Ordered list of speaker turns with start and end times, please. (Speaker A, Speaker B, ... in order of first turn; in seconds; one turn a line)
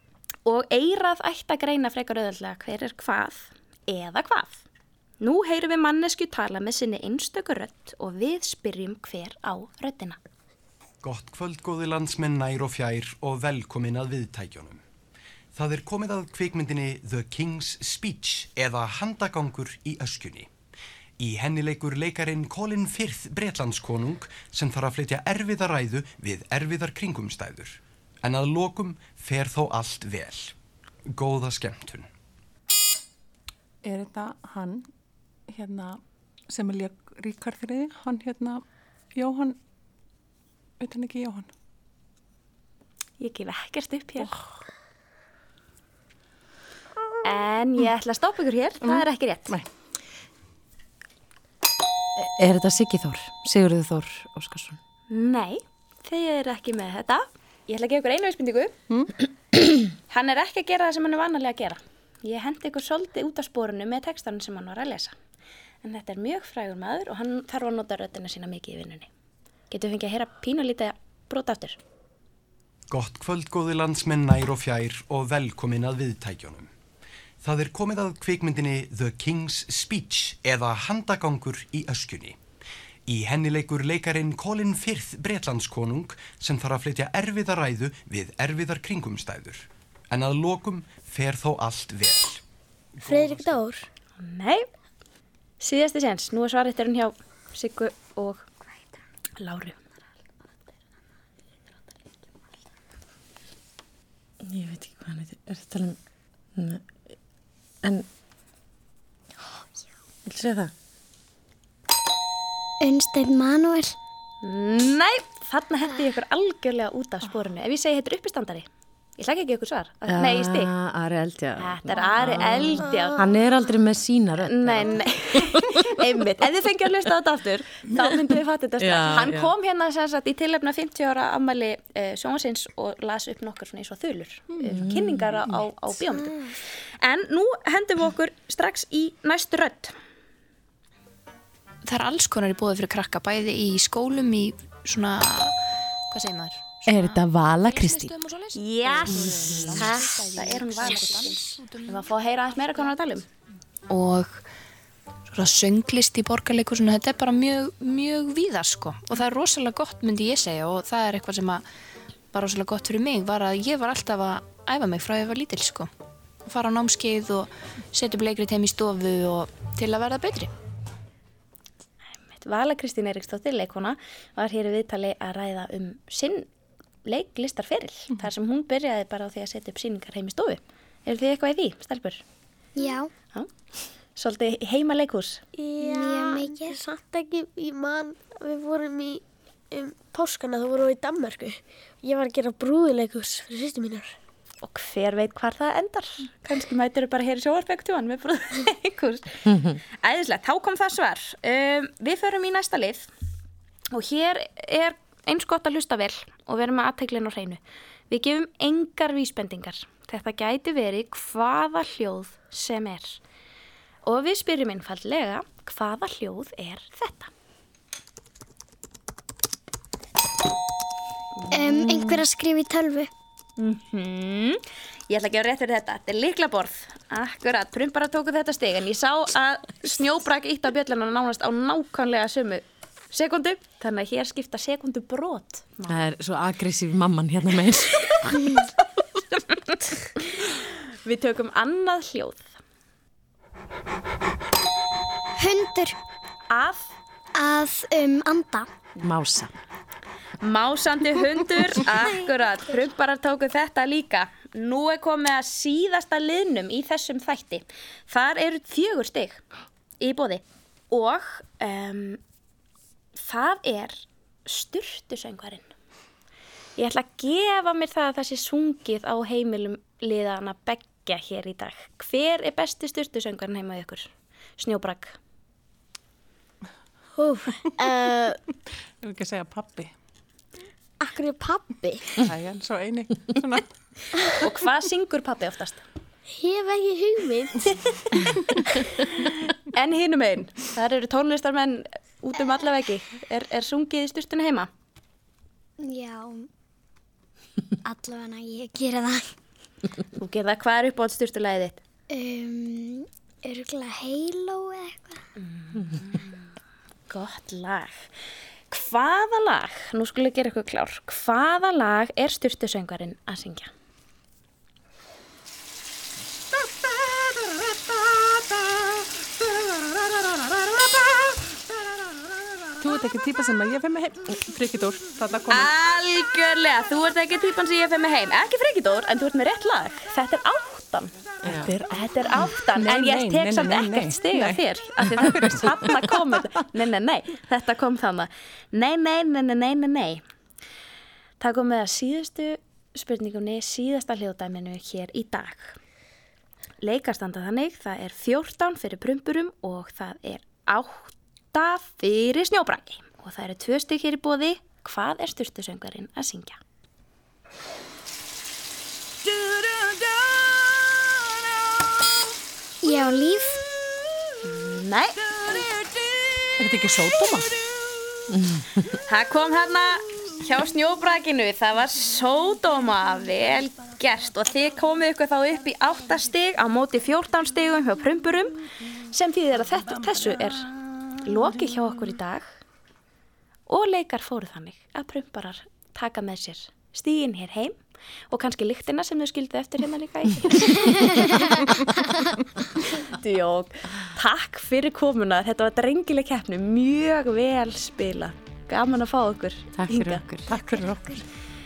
Speaker A: 0.4-4.6
Speaker A: 5.2-10.2
Speaker B: 11.0-14.8
Speaker B: 15.5-20.5
Speaker B: 21.2-30.5
Speaker B: 31.1-32.1
Speaker C: 33.8-34.9
Speaker C: 35.5-38.6
Speaker C: 39.1-39.6
Speaker C: 40.8-41.5
Speaker A: 43.2-44.3
Speaker A: 47.2-49.5
Speaker C: 48.8-49.7
Speaker D: 52.2-54.8
Speaker A: 55.1-58.7
Speaker A: 60.0-65.1
Speaker A: 65.8-69.1
Speaker A: 69.7-71.8
Speaker B: 72.9-76.7
Speaker B: 77.4-82.4
Speaker B: 83.1-92.4
Speaker B: 93.0-93.6
Speaker E: 93.0-93.9
Speaker A: 94.2-94.6
Speaker A: 95.6-98.5
Speaker A: 99.4-99.8
Speaker D: 104.4-106.0
Speaker D: 106.5-106.8
Speaker D: 110.2-110.7
Speaker F: 112.8-113.9
Speaker A: 114.4-118.7
Speaker A: 119.2-120.7
Speaker D: 120.1-125.8
Speaker A: 121.6-123.3
Speaker A: 124.4-139.9
Speaker D: 128.8-129.5
Speaker D: 134.6-135.5
Speaker G: 141.8-145.5
Speaker G: 146.1-152.9
Speaker D: 146.8-148.2
Speaker A: 148.5-153.3
Speaker D: 149.1-150.0
Speaker G: 153.9-154.4
Speaker G: 155.3-161.6
Speaker G: 162.3-165.9
Speaker G: 166.4-170.5
Speaker A: 172.3-176.5
Speaker A: 177.0-182.2
Speaker F: 182.8-183.1
Speaker A: 184.1-185.4
Speaker E: 185.5-194.1
Speaker F: 185.8-186.8
Speaker A: 194.6-203.1
Speaker A: 203.9-213.2
Speaker A: 214.0-217.3
Speaker A: 221.5-222.2
Speaker F: 221.5-223.1
Speaker A: 223.6-236.1
Speaker D: 235.9-238.4
Speaker A: 239.4-242.5
Speaker F: 245.4-246.0
Speaker A: 246.5-246.9
Speaker F: 247.3-248.7
Speaker D: 249.0-249.5
Speaker A: 250.4-259.4
Speaker A: 260.0-262.2
Speaker A: 263.1-265.7
Speaker A: 266.8-275.2
Speaker E: 277.2-278.4
Speaker C: 279.0-279.9
Speaker E: 281.0-282.1
Speaker C: 282.3-283.6
Speaker A: 284.3-285.8
Speaker E: 286.3-287.7
Speaker A: 288.5-294.7
Speaker F: 295.8-296.5
Speaker F: 297.8-299.3
Speaker A: 300.1-301.8
Speaker F: 302.1-305.2
Speaker A: 305.4-306.4
Speaker A: 307.1-308.1
Speaker A: 308.7-313.7
Speaker C: 322.8-325.7
Speaker A: 325.5-331.1
Speaker D: 331.4-331.7
Speaker C: 331.5-331.9
Speaker A: 331.8-340.2
Speaker C: 332.7-336.4
Speaker A: 341.4-345.8
Speaker A: 346.8-356.6
Speaker F: 362.8-363.6
Speaker A: 364.4-365.3
Speaker C: 366.6-367.4
Speaker A: 368.9-382.5
Speaker A: 383.7-387.8
Speaker A: 388.3-391.7
Speaker A: 392.9-400.2
Speaker D: 399.7-401.2
Speaker F: 400.5-401.2